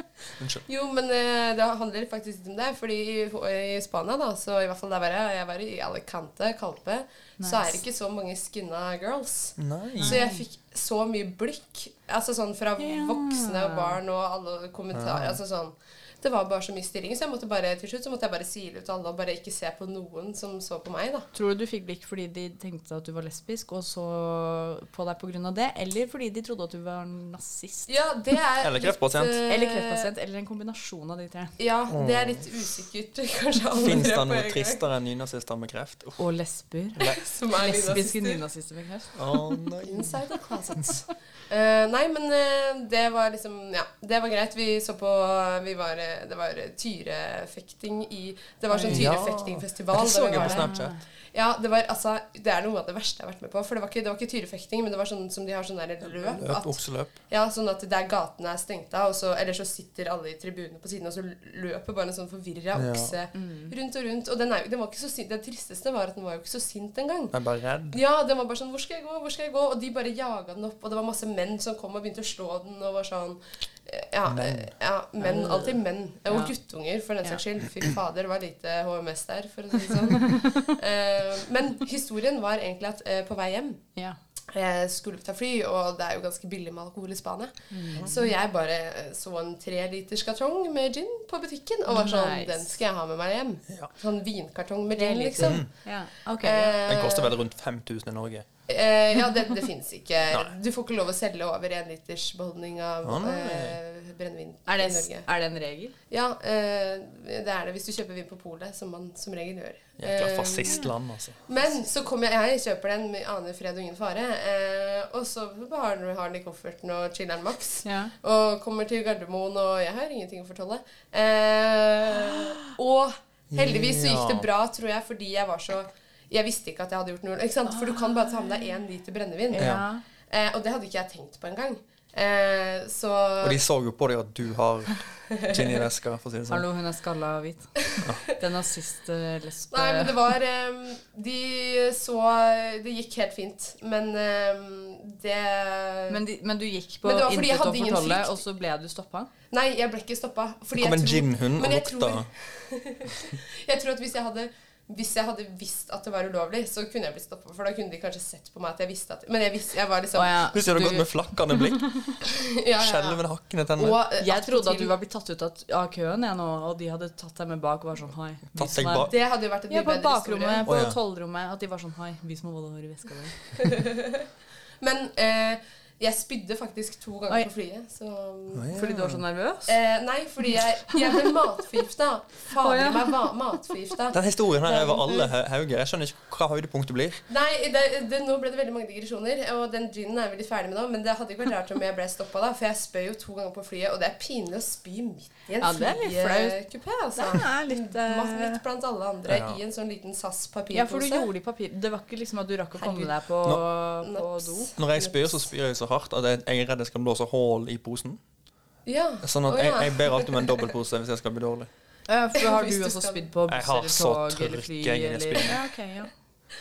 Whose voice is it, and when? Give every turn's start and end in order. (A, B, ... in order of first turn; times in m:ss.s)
0:00.4-0:00.6 A
0:00.7-0:21.3 B
0:07.4-0:07.8 C
0:09.6-0:10.2 A
0:10.0-0:10.4 C
0:12.8-0:14.0 C
0:14.9-0:15.4 A
0:21.3-0:27.9 C
0:27.9-0:30.1 B
0:28.6-0:29.4 A
0:29.5-0:31.6 C
0:31.6-0:34.8 B
0:31.9-0:32.5 A
0:33.8-0:36.2 A
0:36.2-0:37.0 C
0:37.0-0:37.2 A
0:37.0-0:38.4 B
0:37.5-0:39.1 C
0:39.2-0:40.2 A
0:39.8-0:50.7 B
0:48.7-0:49.2 C
0:48.9-0:51.0 A
0:50.4-0:51.0 C
0:51.3-1:07.4 B
0:56.0-0:57.1 A
1:02.8-1:03.2 A
1:03.3-1:03.7 C
1:07.3-1:08.0 A
1:07.9-1:23.8 B
1:14.3-1:14.7 A
1:15.2-1:15.7 C
1:16.3-1:16.5 C
1:20.2-1:20.5 C
1:24.5-1:35.7 B
1:27.7-1:28.1 C
1:31.9-1:32.8 C
1:35.0-1:36.8 C
1:35.4-1:35.7 A
1:36.4-1:37.3 B
1:36.8-1:38.5 A
1:38.7-1:45.3 B
1:40.3-1:40.6 A
1:43.0-1:43.8 A
1:44.7-1:45.9 C
1:46.1-1:50.8 B
1:50.0-1:51.7 A
1:51.5-2:09.8 B
1:57.8-1:58.1 C
2:03.5-2:04.5 A
2:07.7-2:08.6 C
2:09.5-2:10.0 C
2:09.6-2:09.8 A
2:10.3-2:13.6 B
2:13.4-2:16.7 A
2:15.3-2:15.8 B
2:16.5-2:17.7 C
2:18.4-2:20.2 C
2:19.7-2:26.2 B
2:26.1-2:29.3 C
2:27.0-2:28.4 B
2:29.5-2:40.4 B
2:30.8-2:32.3 A
2:40.2-2:42.1 C
2:40.5-2:42.0 A
2:42.4-2:43.2 B
2:42.8-2:44.0 A
2:43.8-2:44.9 B
2:44.2-2:49.1 C
2:48.6-2:49.2 A
2:49.1-2:50.7 B
2:49.7-2:53.4 C
2:50.7-2:51.0 A
2:53.6-2:54.3 B
2:54.8-2:58.7 B
2:58.5-2:59.2 A
2:58.7-2:59.8 C
2:59.7-3:05.3 B
3:00.6-3:01.2 C
3:02.6-3:03.2 C
3:04.1-3:07.2 A
3:07.3-3:21.3 B
3:15.6-3:16.6 C
3:17.2-3:18.6 C
3:19.3-3:19.6 A
3:20.7-3:24.7 C
3:22.8-3:23.1 B
3:24.0-3:25.4 B
3:24.8-3:28.2 A
3:28.9-3:30.6 B
3:29.2-3:31.7 A
3:32.1-3:36.1 C
3:32.4-3:33.2 B
3:33.5-3:35.6 A